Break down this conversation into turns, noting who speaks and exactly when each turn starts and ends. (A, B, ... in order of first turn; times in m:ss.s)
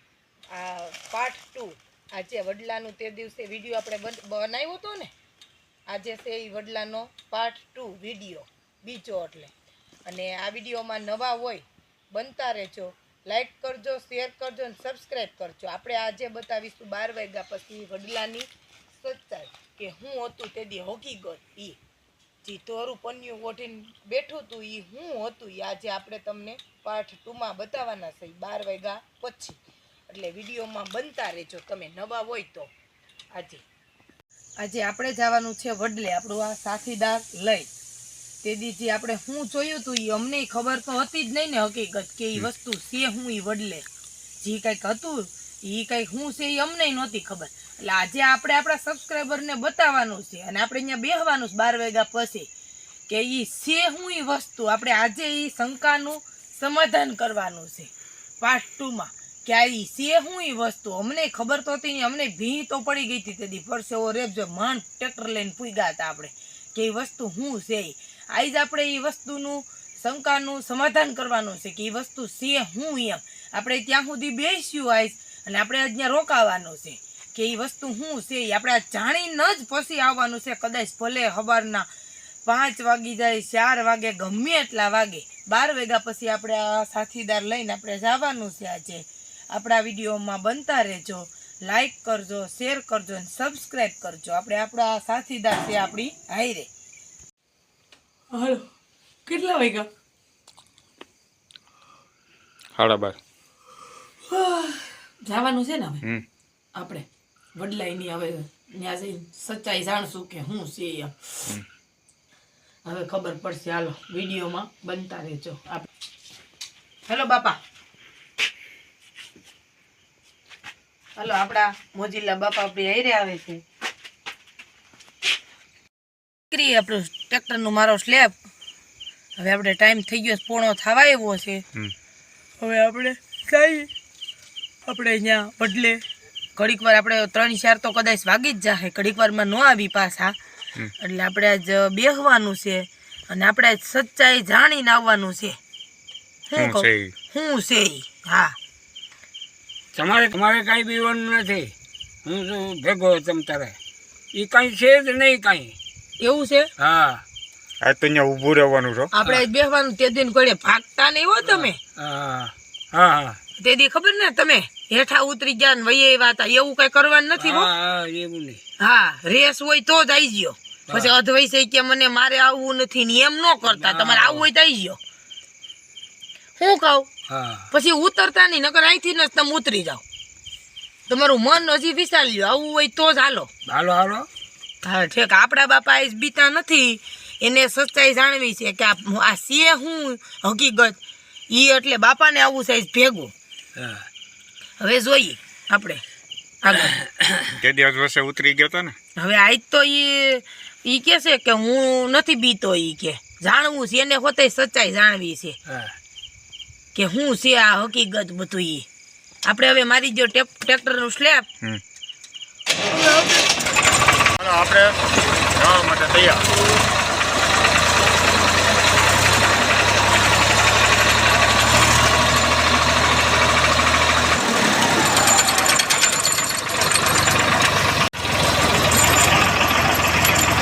0:00.5-0:05.1 A
0:05.9-0:09.5 A
0:10.0-0:21.8 A
0:22.4-0:32.7 A
0:33.3-0:33.6 A
0:34.6-0:37.7 A
0:38.4-0:43.8 A
0:44.4-0:52.5 A
0:53.1-1:21.9 A
1:22.4-1:36.7 A
1:38.3-1:38.7 A
1:39.2-1:39.9 A
1:42.8-1:43.2 B
1:44.3-1:46.0 A
1:46.7-1:51.3 A
1:52.8-1:55.9 A
1:57.0-1:57.6 A
2:01.2-2:03.6 A
2:06.5-2:08.4 A
2:09.4-2:11.6 A
2:12.6-2:13.9 A
2:14.8-2:16.0 A
2:16.6-2:20.3 A
2:21.0-2:25.6 A
2:26.5-2:28.5 A
2:26.6-2:27.1 B
2:29.9-2:31.7 C
2:32.2-2:33.8 C
2:34.3-2:35.8 C
2:36.2-2:36.7 A
2:36.8-2:37.2 C
2:37.8-2:39.1 B
2:39.1-2:41.8 A
2:41.4-2:43.4 C
2:43.6-2:47.7 A
2:47.4-2:48.6 C
2:48.8-2:55.0 A
2:50.9-2:51.1 C
2:53.7-2:54.5 C
2:56.6-2:57.1 A
2:57.3-2:57.7 C
2:57.7-3:00.0 A
3:01.1-3:03.5 A
3:03.7-3:04.3 C
3:04.8-3:11.0 A
3:11.5-3:13.3 A
3:13.8-3:14.1 C
3:14.8-3:16.0 A
3:16.6-3:16.9 A
3:16.8-3:17.5 C
3:17.6-3:18.9 B
3:19.2-3:25.6 A
3:25.7-3:25.9 C
3:26.9-3:28.9 A
3:29.4-3:31.5 A
3:33.0-3:33.4 A
3:34.4-3:35.0 B
3:35.6-3:36.4 B